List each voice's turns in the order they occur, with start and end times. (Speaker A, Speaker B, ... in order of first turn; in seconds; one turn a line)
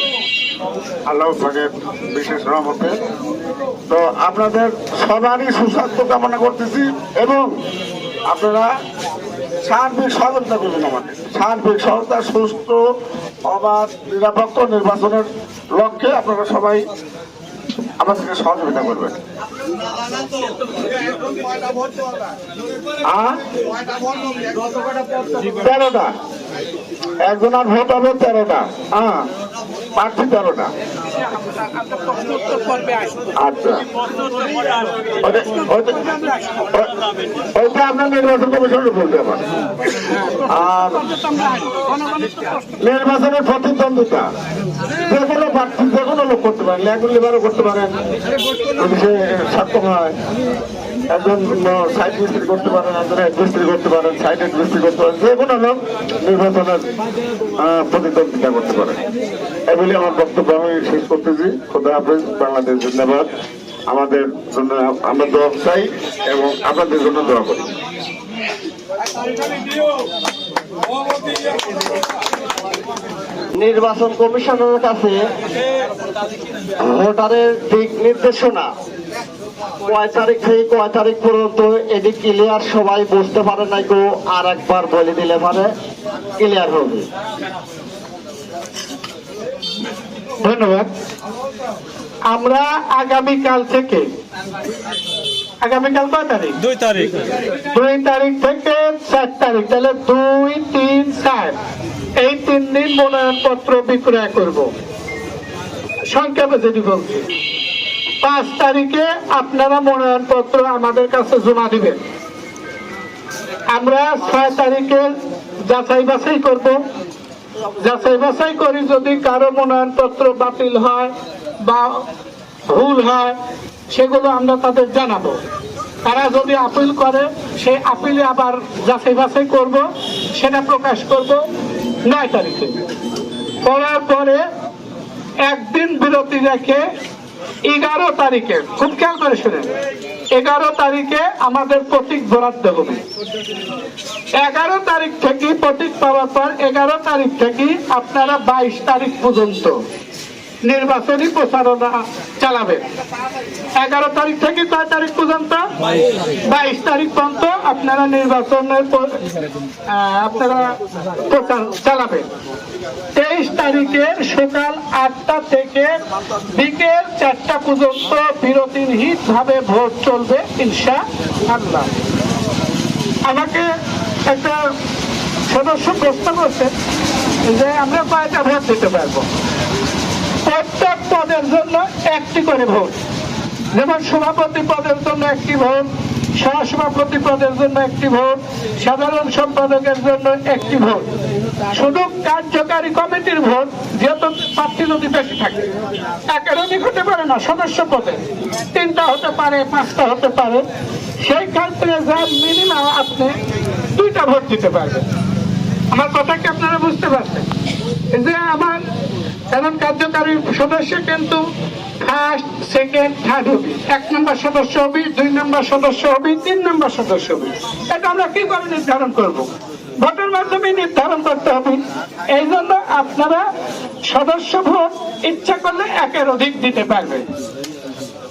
Speaker A: 1.1-3.0
Speaker A: 3.9-7.5
Speaker A: 8.3-8.7
Speaker A: 9.6-12.8
Speaker A: 13.5-16.9
Speaker A: 18.0-19.2
Speaker A: 23.1-23.4
Speaker A: 25.4-26.1
Speaker A: 27.2-29.3
Speaker A: 29.9-30.7
Speaker B: 31.2-33.3
Speaker A: 33.4-33.8
Speaker A: 35.2-36.0
Speaker B: 35.5-36.7
Speaker A: 37.5-39.4
Speaker B: 40.0-42.7
Speaker A: 40.5-41.0
Speaker A: 42.8-44.3
Speaker A: 45.0-48.0
Speaker A: 48.8-50.1
Speaker A: 51.1-56.8
Speaker A: 57.6-59.0
Speaker A: 59.7-63.3
Speaker A: 63.9-67.7
Speaker C: 73.5-75.2
Speaker C: 76.8-78.7
Speaker C: 79.8-85.7
Speaker C: 86.4-87.1
Speaker B: 90.4-90.9
Speaker B: 92.3-94.1
Speaker B: 95.6-96.6
Speaker B: 97.7-101.5
Speaker B: 102.2-104.7
Speaker B: 106.1-107.3
Speaker B: 108.2-112.0
Speaker B: 113.7-115.1
Speaker B: 115.7-116.8
Speaker B: 117.8-122.0
Speaker B: 122.7-123.3
Speaker B: 123.9-125.4
Speaker B: 126.0-131.4
Speaker B: 132.1-132.8
Speaker B: 133.6-134.4
Speaker B: 135.4-136.8
Speaker B: 137.7-139.7
Speaker B: 140.3-143.0
Speaker B: 144.4-149.8
Speaker B: 150.6-152.8
Speaker B: 153.8-155.7
Speaker B: 156.4-159.2
Speaker B: 159.9-162.3
Speaker B: 163.1-165.9
Speaker B: 166.5-171.9
Speaker B: 173.2-173.7
Speaker B: 174.2-174.6
Speaker B: 175.5-176.7
Speaker B: 177.4-179.3
Speaker B: 180.4-182.9
Speaker B: 183.7-191.1
Speaker B: 191.7-195.7
Speaker B: 196.2-198.2
Speaker B: 198.7-200.6
Speaker B: 201.2-203.3
Speaker B: 203.9-205.1
Speaker B: 205.9-207.5
Speaker B: 208.1-208.8
Speaker B: 209.5-211.4
Speaker B: 212.0-219.5
Speaker B: 220.0-221.8
Speaker B: 222.3-223.4
Speaker B: 224.1-227.2